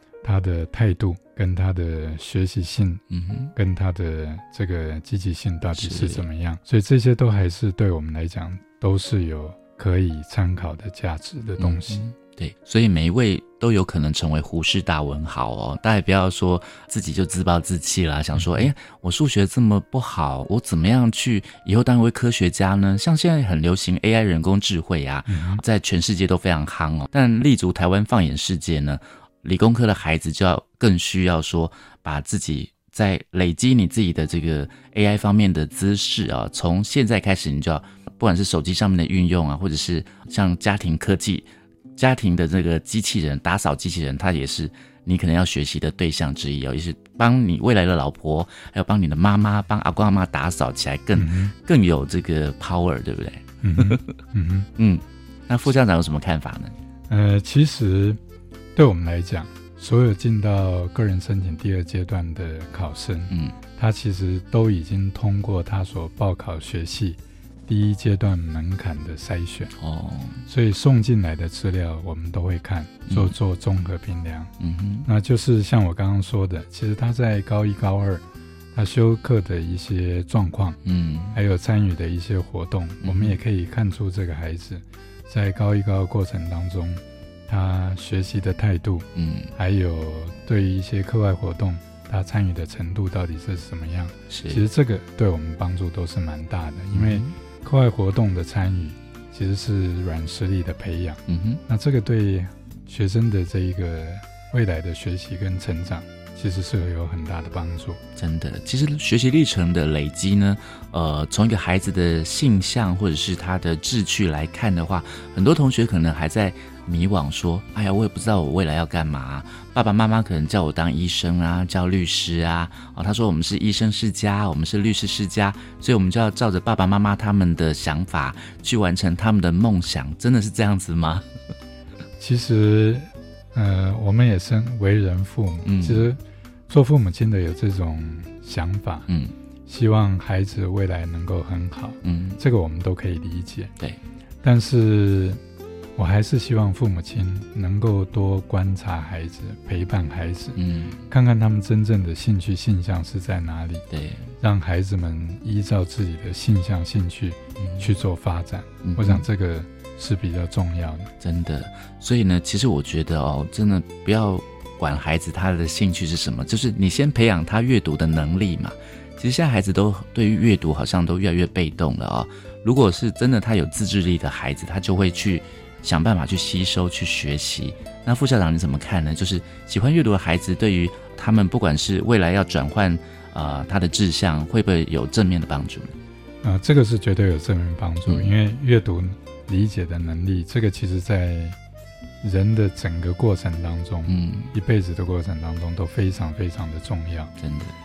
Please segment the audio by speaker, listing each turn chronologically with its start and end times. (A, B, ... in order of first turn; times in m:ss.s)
0:00.2-0:03.0 A
0:03.1-0:03.5 B
0:03.6-0:12.0 A
0:05.7-0:06.2 B
0:11.6-0:54.2 B
0:18.4-0:18.7 A
0:25.3-0:25.6 A
0:51.1-0:51.5 A
0:53.6-0:54.7 A
0:54.8-0:56.8 B
0:57.1-0:58.2 A
0:58.8-1:09.7 A
1:03.3-1:03.6 B
1:09.8-1:10.4 B
1:10.5-1:14.5 A
1:13.1-1:13.4 B
1:14.6-1:15.1 B
1:15.1-1:20.8 A
1:20.8-1:21.4 B
1:21.3-1:48.0 A
1:23.0-1:23.4 B
1:29.2-1:29.5 B
1:34.3-1:34.6 B
1:36.9-1:37.4 B
1:41.3-1:41.6 B
1:48.2-2:11.3 B
2:12.2-2:19.1 A
2:15.6-2:16.1 B
2:19.1-2:19.3 B
2:19.7-2:23.7 A
2:22.0-2:22.4 B
2:24.4-2:25.4 A
2:26.0-2:33.8 A
2:30.6-2:31.0 B
2:33.9-2:34.3 B
2:34.4-2:41.1 A
2:37.6-2:37.9 B
2:38.8-2:39.3 B
2:41.2-3:06.0 B
3:06.4-3:11.6 A
3:08.0-3:08.3 B
3:12.2-3:17.3 A
3:14.0-3:14.5 B
3:17.4-3:17.8 B